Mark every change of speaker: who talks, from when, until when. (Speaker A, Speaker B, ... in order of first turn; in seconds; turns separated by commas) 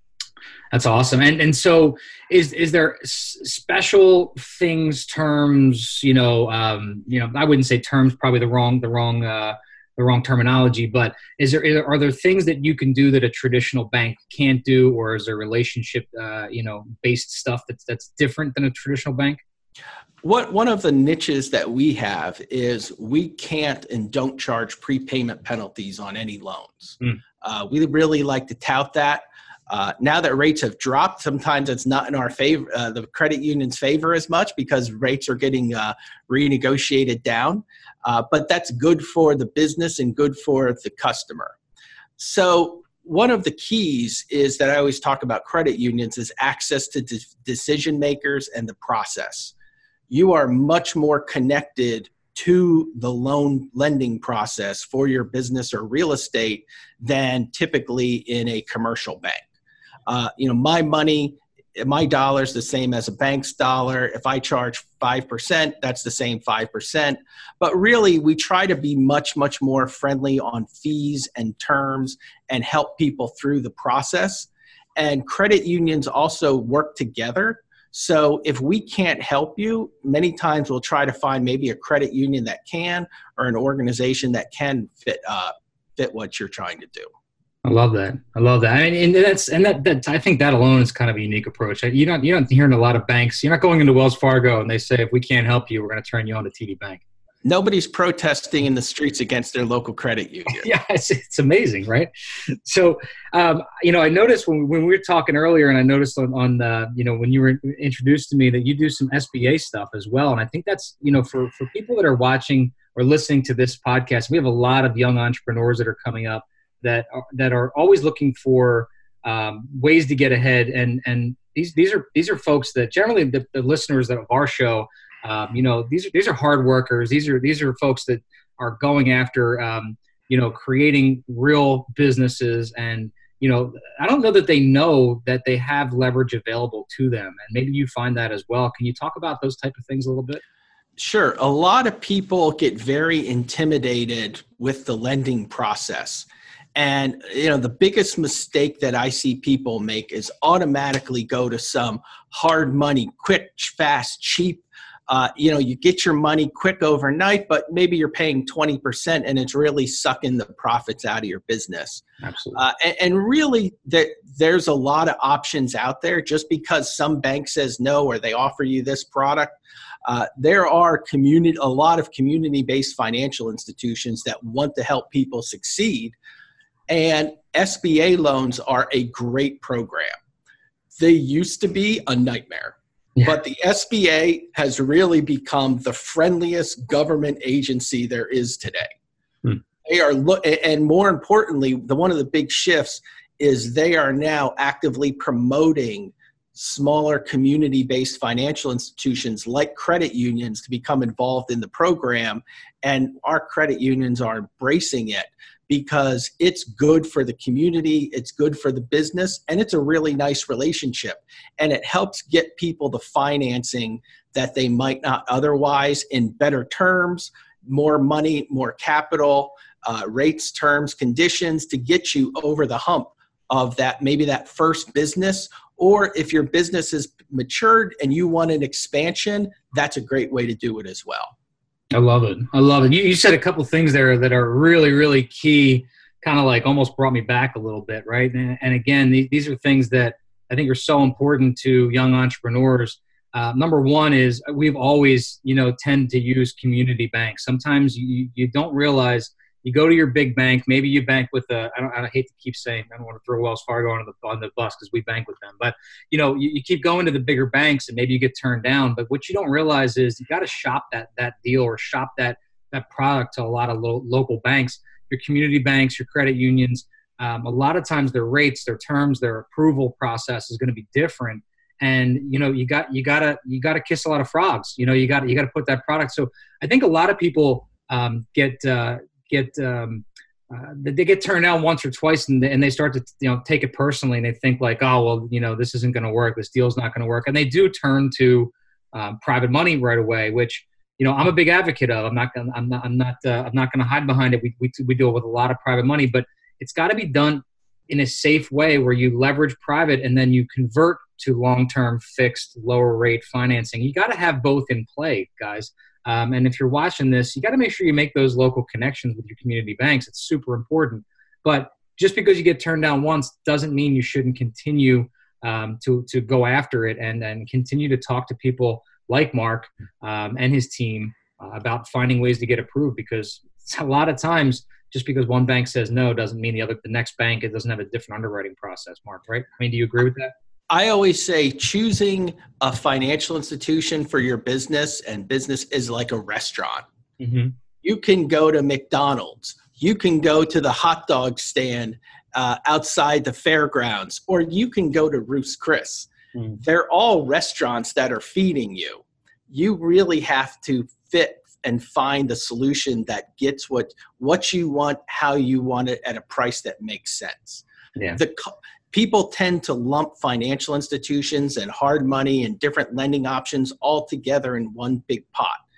Speaker A: 0.7-19.4, Speaker B: 20.2-41.5, Speaker B: 42.2-49.5, Speaker B: 50.1-59.5, Speaker B: 60.1-87.1, Speaker A: 87.6-97.0, Speaker B: 97.4-100.7, Speaker A: 100.5-140.4, Speaker B: 141.0-176.2, Speaker A: 162.2-162.6, Speaker B: 176.9-180.1, Speaker B: 181.0-188.9, Speaker B: 189.8-231.3, Speaker A: 231.9-330.3, Speaker B: 330.7-336.8, Speaker A: 337.2-337.5, Speaker B: 337.8-346.1, Speaker A: 346.3-346.6, Speaker B: 346.6-357.6, Speaker B: 358.1-365.6